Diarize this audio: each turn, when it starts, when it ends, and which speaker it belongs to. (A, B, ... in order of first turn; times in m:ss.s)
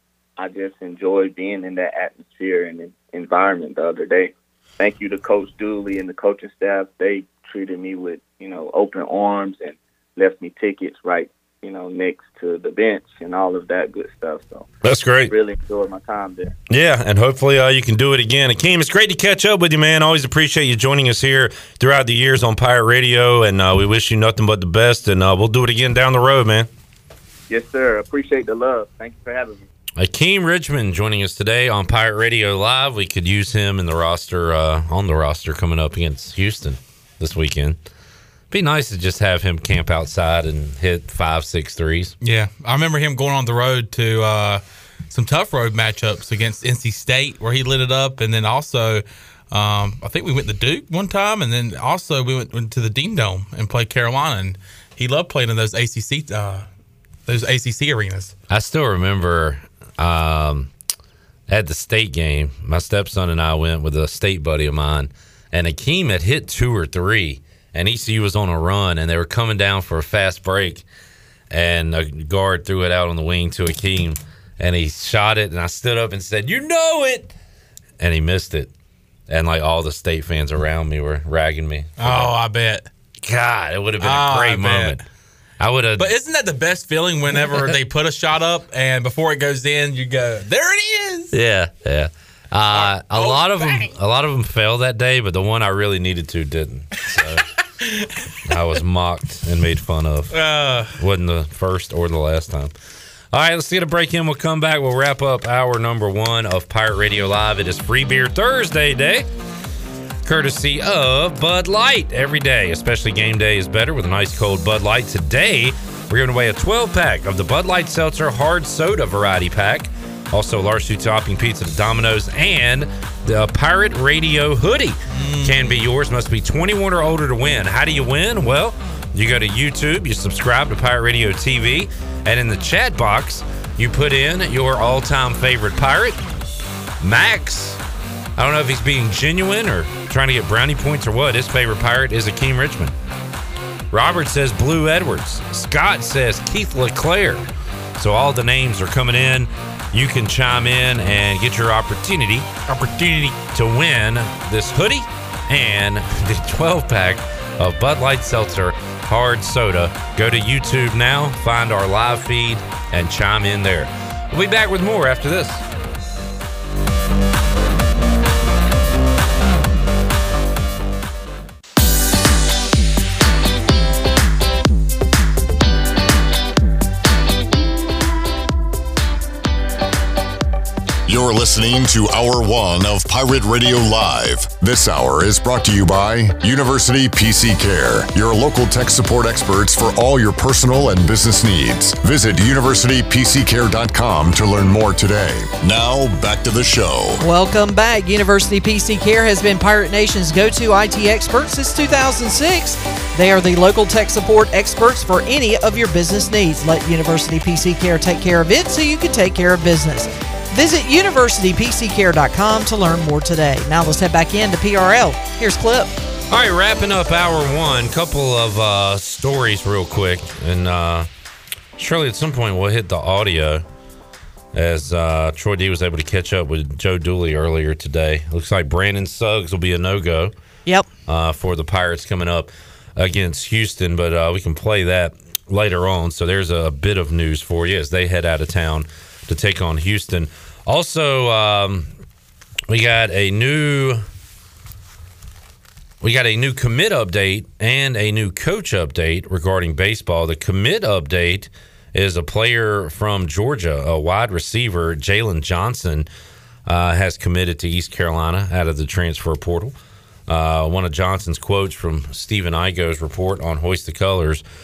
0:00.4-0:14.7 A
0:14.8-0:15.3 B
0:15.3-0:16.5 A
0:16.7-0:26.7 B
0:27.5-0:29.6 A
0:30.0-0:37.8 B
0:38.5-0:42.1 B
0:42.2-0:56.7 C
0:57.3-0:58.3 C
0:58.5-1:00.7 B
1:01.5-1:10.8 B
1:11.5-1:17.3 B
1:18.0-1:18.7 B
1:19.3-1:22.3 B
1:22.0-1:22.8 C
1:23.2-1:25.0 B
1:24.0-1:25.0 C
1:25.6-1:26.1 B
1:26.0-1:31.3 C
1:31.3-1:37.4 B
1:32.7-1:33.8 C
1:38.5-1:40.4 B
1:40.3-1:40.9 C
1:41.0-1:42.7 B
1:43.3-1:49.3 B
1:50.2-2:16.2 B
2:05.1-2:05.5 C
2:17.0-2:17.8 B
2:18.4-2:22.9 B
2:23.9-2:32.6 B
2:32.7-2:33.3 C
2:33.4-2:45.6 B
3:01.1-3:17.2 D
3:17.2-3:35.9 E
3:36.3-3:41.1 B
3:41.8-3:43.6 B
3:44.5-3:50.3 B
3:51.0-4:01.9 B
4:02.7-4:04.0 B
4:06.0-4:16.1 B
4:16.6-4:19.7 B
4:20.3-4:24.4 B